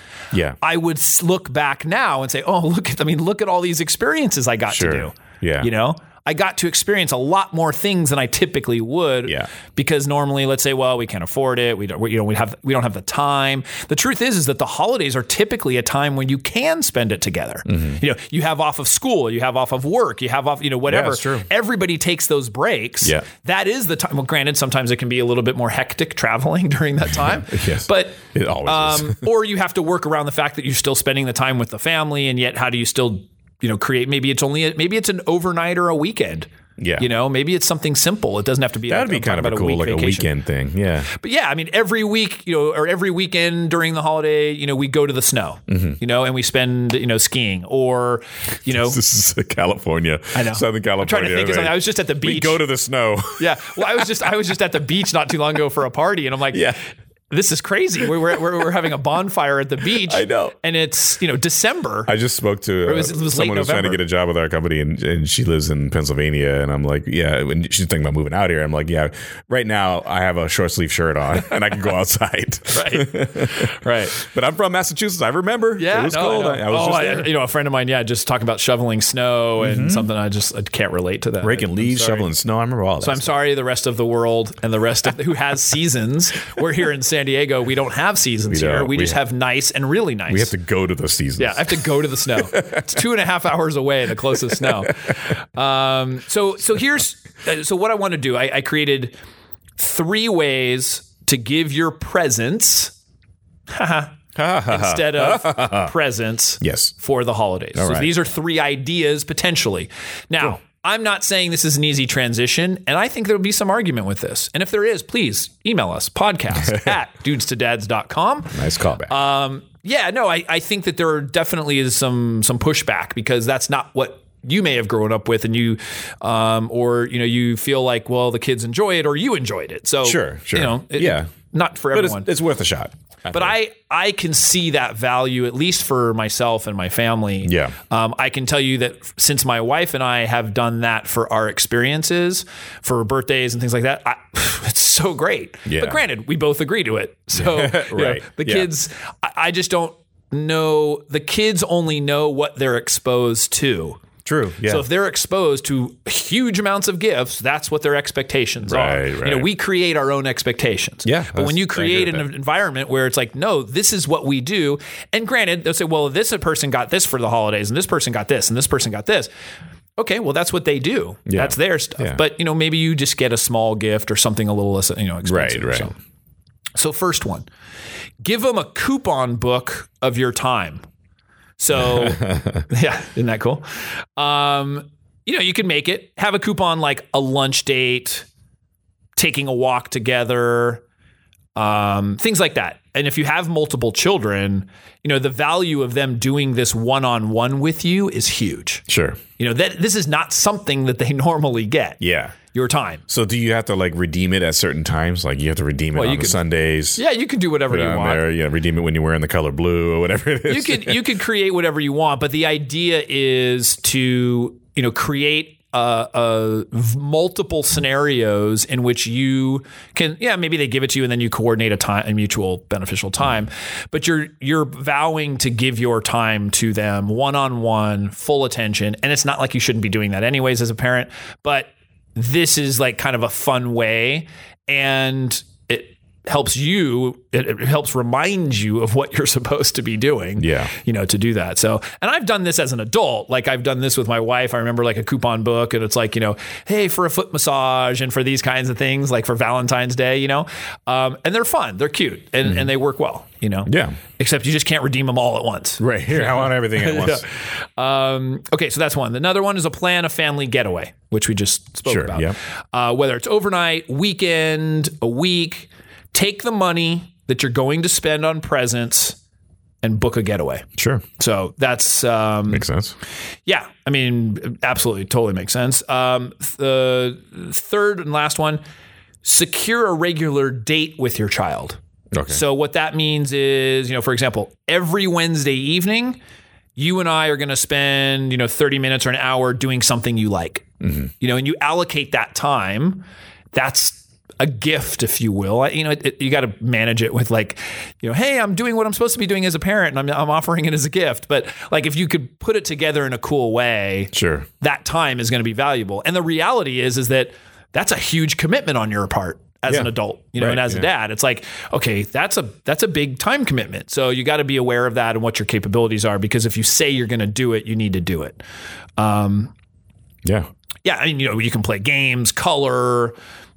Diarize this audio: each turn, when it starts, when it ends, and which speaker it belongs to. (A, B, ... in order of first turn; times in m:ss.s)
0:00.3-0:00.6 A
0:00.6-0:40.3 B
0:04.7-0:05.7 A
0:17.7-0:18.0 A
0:20.9-0:21.4 A
0:27.3-0:29.2 A
0:36.8-0:37.1 A
0:38.9-0:41.1 A
0:41.1-0:49.0 B
0:45.7-0:46.0 A
0:48.7-0:54.1 A
0:50.3-0:52.6 B
0:53.4-0:56.8 B
0:56.5-0:56.8 A
0:57.3-1:02.1 B
1:00.0-1:00.5 A
1:02.1-1:17.3 A
1:02.8-1:04.0 B
1:12.7-1:14.2 B
1:15.8-1:22.3 B
1:19.6-1:20.1 A
1:21.4-1:23.3 A
1:23.0-1:30.5 B
1:28.5-1:29.2 A
1:30.3-1:32.8 A
1:31.4-1:39.1 B
1:34.5-1:34.8 A
1:39.8-1:42.9 B
1:43.7-2:12.3 B
1:44.4-1:45.9 A
1:46.6-1:46.9 A
1:47.7-1:48.1 A
1:56.6-1:56.9 A
1:58.5-1:59.1 A
2:10.0-2:11.3 A
2:11.9-2:13.5 A
2:13.3-2:34.0 B
2:17.4-2:17.8 A
2:25.6-2:26.0 A
2:27.3-2:28.7 A
2:34.2-2:34.8 A
2:34.6-2:49.3 B
2:38.7-2:39.5 A
2:41.0-2:42.2 A
2:50.0-2:56.0 B
2:51.3-2:52.2 A
2:55.2-2:55.9 A
2:56.8-2:57.5 B
2:58.2-3:00.8 B
3:01.6-3:03.6 B
3:01.7-3:02.6 A
3:04.2-3:08.3 B
3:09.2-3:10.8 B
3:11.6-3:18.8 B
3:18.9-3:19.2 A
3:19.4-3:22.0 B
3:22.0-3:22.4 A
3:22.5-3:23.0 B
3:23.1-3:27.0 A
3:25.9-3:26.4 B
3:27.0-3:28.2 B
3:27.7-3:31.0 A
3:30.5-4:29.2 B
4:00.4-4:00.7 A
4:13.6-4:14.0 A
4:15.8-4:17.3 A
4:21.8-4:22.3 A
4:29.8-4:30.6 B
4:30.8-4:31.0 A
4:31.2-4:32.6 B
4:32.5-4:33.0 A
4:33.4-4:38.6 B
4:39.2-4:46.2 B
4:42.1-4:42.4 A
4:46.8-4:50.7 B
4:50.8-4:51.1 A
4:51.2-5:18.4 B
5:04.1-5:04.5 A
5:09.7-5:10.9 A
5:19.0-5:19.5 B
5:20.8-5:23.1 B